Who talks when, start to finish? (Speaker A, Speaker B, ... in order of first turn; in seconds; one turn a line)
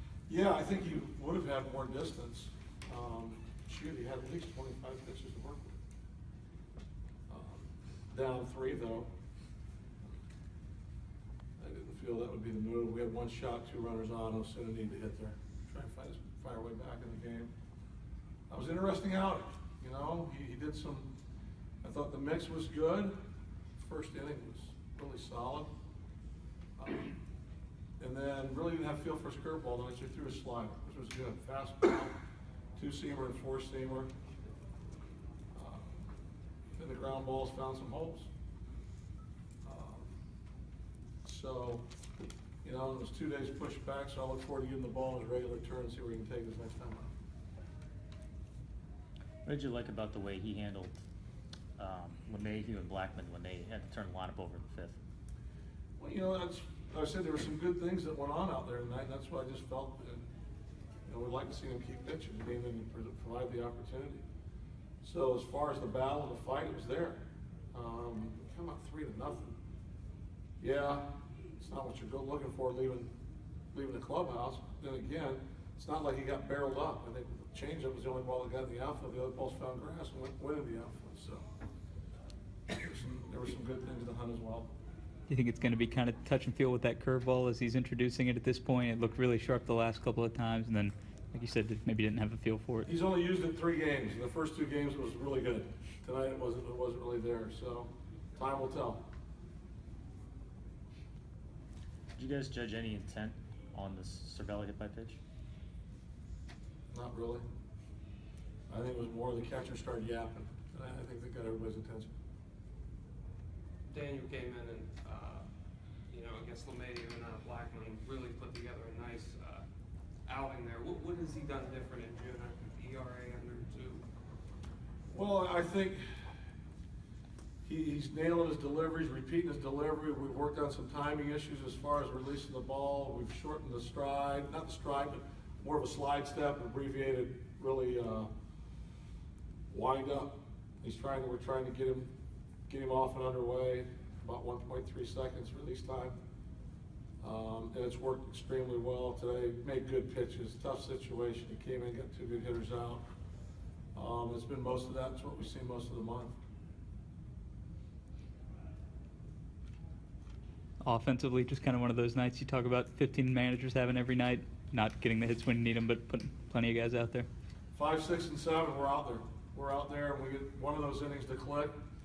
Speaker A: 0.3-5.8
Speaker A: 7.3-9.1
Speaker A: 11.6-17.5
Speaker A: 18.5-21.1
Speaker A: 21.8-23.1
Speaker A: 23.8-25.7
Speaker A: 26.8-27.1
Speaker A: 28.0-32.2
Speaker A: 32.8-34.1
Speaker A: 35.5-36.1
Speaker A: 36.8-38.3
Speaker A: 39.6-40.2
Speaker A: 41.2-41.9
Speaker A: 42.6-47.1
Speaker B: 49.5-51.0
Speaker B: 51.8-55.0
Speaker A: 56.0-60.2
Speaker A: 61.0-64.2
Speaker A: 65.0-69.6
Speaker A: 70.6-71.0
Speaker A: 71.6-73.1
Speaker A: 73.7-81.4
Speaker A: 82.7-84.7
Speaker C: 85.3-92.9
Speaker A: 92.8-99.0
Speaker B: 102.2-105.2
Speaker A: 106.9-107.4
Speaker A: 108.7-112.1
Speaker D: 113.9-115.5
Speaker D: 116.1-119.6
Speaker D: 120.2-124.0
Speaker A: 125.1-126.3
Speaker A: 127.6-138.3
Speaker A: 139.7-142.1
Speaker A: 142.7-146.2
Speaker A: 147.2-153.0
Speaker A: 153.9-156.4
Speaker C: 160.8-167.3
Speaker A: 167.7-171.8